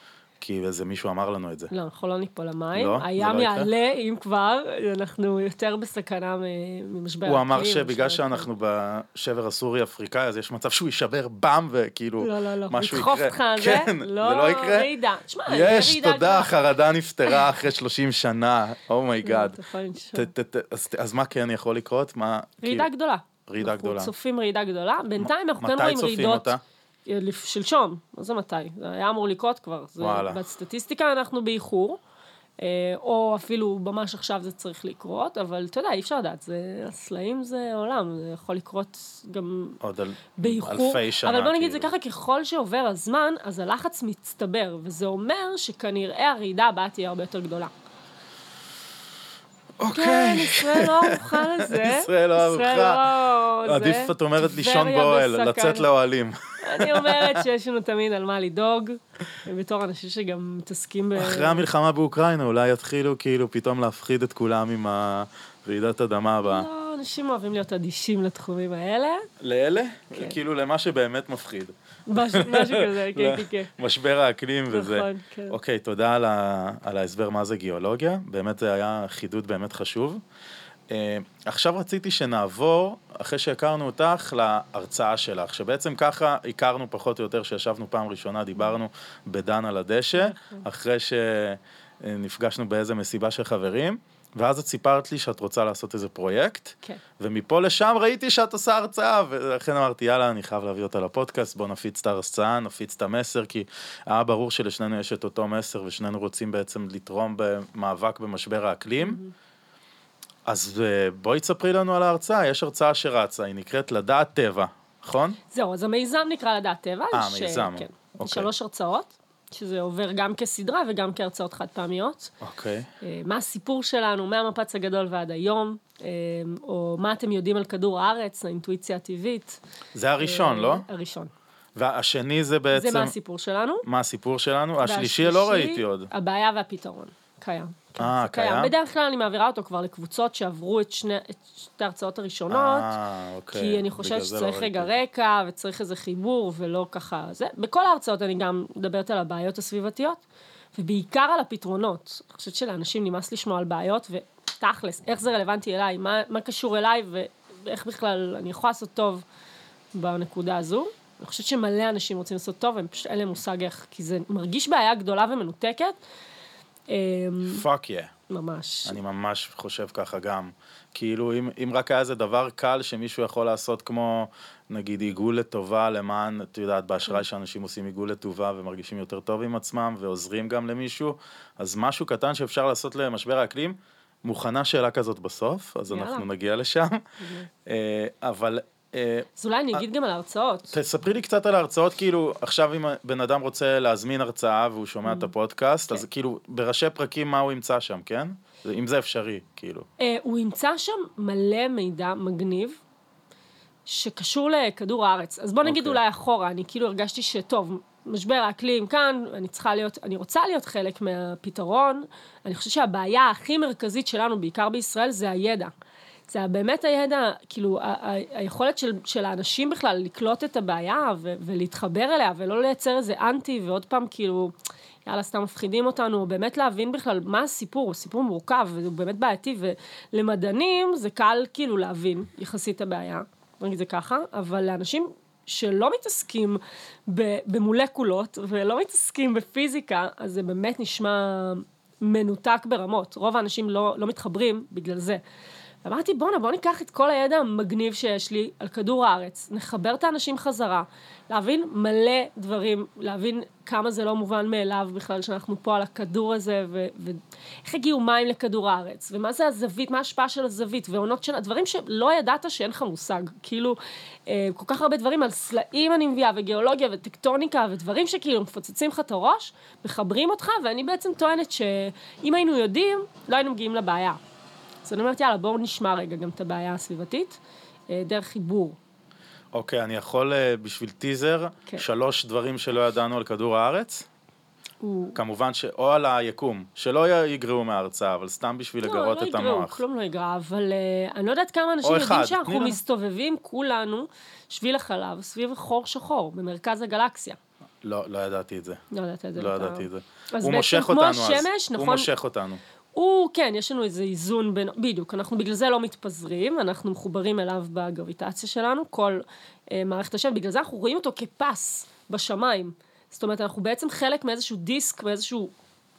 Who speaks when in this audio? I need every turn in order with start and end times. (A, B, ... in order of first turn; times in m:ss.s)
0:00.4-0:01.7 A
0:01.7-0:08.5 B
0:02.7-0:03.7 A
0:07.2-0:14.9 A
0:12.2-0:16.5 B
0:15.4-0:19.6 A
0:19.2-0:20.3 B
0:20.1-0:22.9 A
0:22.6-0:32.0 B
0:23.5-0:24.1 A
0:25.2-0:26.6 A
0:30.0-0:30.4 A
0:32.6-0:39.8 B
0:39.8-0:41.9 A
0:40.4-0:47.7 B
0:49.8-0:57.4 A
0:49.9-0:55.9 B
0:56.6-1:01.6 B
1:01.2-1:06.7 A
1:06.4-1:09.3 B
1:09.4-1:20.2 A
1:12.1-1:13.7 B
1:14.7-1:15.6 B
1:20.9-1:49.2 A
1:30.1-1:30.6 B
1:49.0-1:49.3 B
1:50.4-1:55.4 A
1:55.5-2:02.3 B
1:57.1-1:58.5 A
2:02.4-2:02.9 A
2:03.0-2:09.6 B
2:09.9-2:10.8 A
2:10.2-2:11.3 B
2:11.8-2:13.1 A
2:12.7-2:13.8 B
2:13.8-2:16.1 A
2:14.8-2:22.9 B
2:18.0-2:18.7 A
2:22.5-2:24.9 A
2:23.5-2:30.2 B
2:30.7-2:39.2 B
2:39.9-2:45.9 B
2:46.9-2:47.6 B
2:47.4-2:48.1 A
2:48.3-2:49.0 B
2:48.8-3:07.0 A
3:05.9-3:06.3 B
3:07.2-3:07.5 B
3:07.6-3:09.8 A
3:09.4-3:10.7 B
3:10.7-3:19.9 A
3:15.0-3:15.3 B
3:20.0-3:22.8 B
3:23.8-3:35.7 B
3:25.6-3:26.0 A
3:36.3-3:44.5 B
3:45.0-4:05.2 B
4:05.8-4:34.2 B
4:34.8-4:38.8 B
4:39.5-4:44.1 A
4:44.8-4:45.2 B
4:45.1-4:49.8 A
4:48.8-4:57.4 B
4:51.8-4:52.8 A
4:57.8-4:58.8 A
4:58.9-5:02.1 B
4:59.4-5:02.6 A
5:02.9-5:15.5 B